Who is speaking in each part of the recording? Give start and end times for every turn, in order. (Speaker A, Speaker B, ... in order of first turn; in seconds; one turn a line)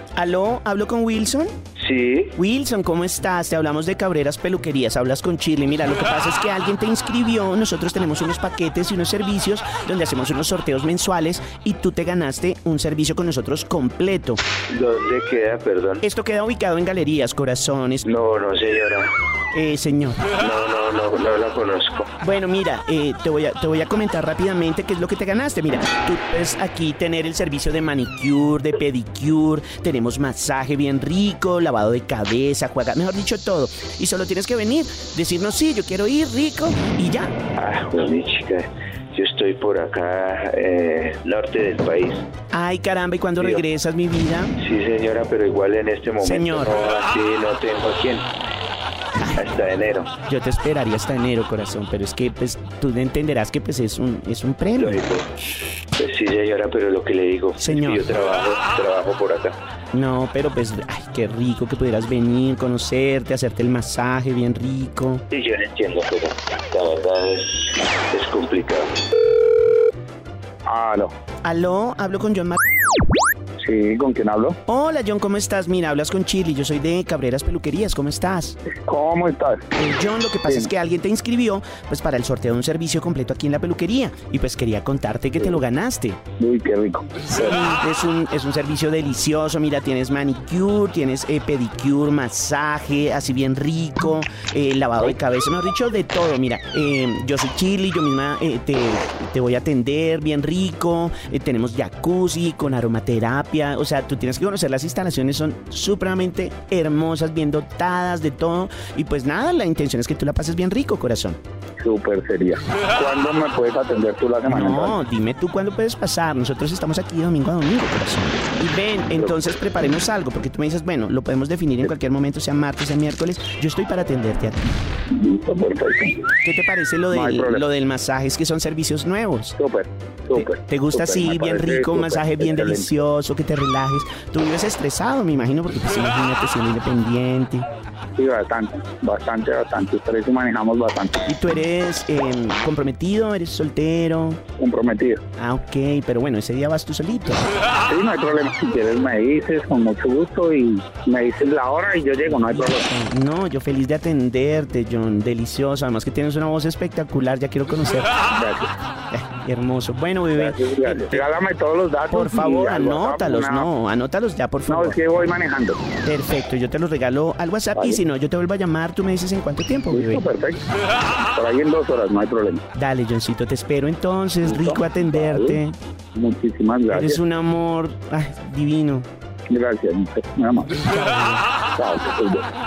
Speaker A: 0.2-1.5
Speaker B: 1.8-2.4
Speaker A: 2.4-14.4
Speaker B: 14.7-16.0
Speaker A: 16.0-18.1
Speaker B: 18.1-19.1
Speaker A: 19.5-20.2
Speaker B: 20.4-22.1
Speaker A: 22.2-37.3
Speaker B: 37.5-42.3
Speaker A: 42.5-44.5
Speaker B: 43.4-43.6
Speaker B: 44.6-48.3
Speaker A: 46.2-46.7
Speaker B: 49.4-50.1
Speaker A: 50.3-55.0
Speaker B: 54.8-55.3
Speaker B: 56.0-59.6
Speaker A: 57.6-58.1
Speaker A: 59.9-65.2
Speaker B: 65.3-68.9
Speaker C: 70.7-71.1
Speaker A: 71.4-72.6
Speaker C: 73.6-74.6
Speaker A: 74.7-78.6
Speaker C: 78.8-79.7
Speaker A: 79.8-86.2
Speaker C: 86.4-87.6
Speaker A: 87.3-111.4
Speaker C: 111.8-115.0
Speaker A: 114.5-124.7
Speaker C: 125.1-126.2
Speaker A: 126.4-129.5
Speaker C: 127.1-127.7
Speaker C: 129.6-132.9
Speaker A: 130.3-137.7
Speaker C: 138.2-141.3
Speaker A: 141.3-144.4
Speaker C: 144.6-145.2
Speaker A: 145.4-147.5
Speaker C: 147.9-152.9
Speaker A: 152.2-158.1
Speaker C: 158.3-158.7
Speaker A: 159.1-161.3
Speaker C: 160.4-163.7
Speaker A: 162.1-165.0
Speaker C: 164.7-165.8
Speaker A: 166.0-170.2
Speaker C: 169.9-170.6
Speaker C: 171.3-172.6
Speaker A: 172.8-175.8
Speaker C: 174.4-175.6
Speaker C: 176.2-177.2
Speaker A: 176.9-179.1
Speaker C: 179.5-180.8
Speaker A: 180.8-181.4
Speaker C: 181.8-182.5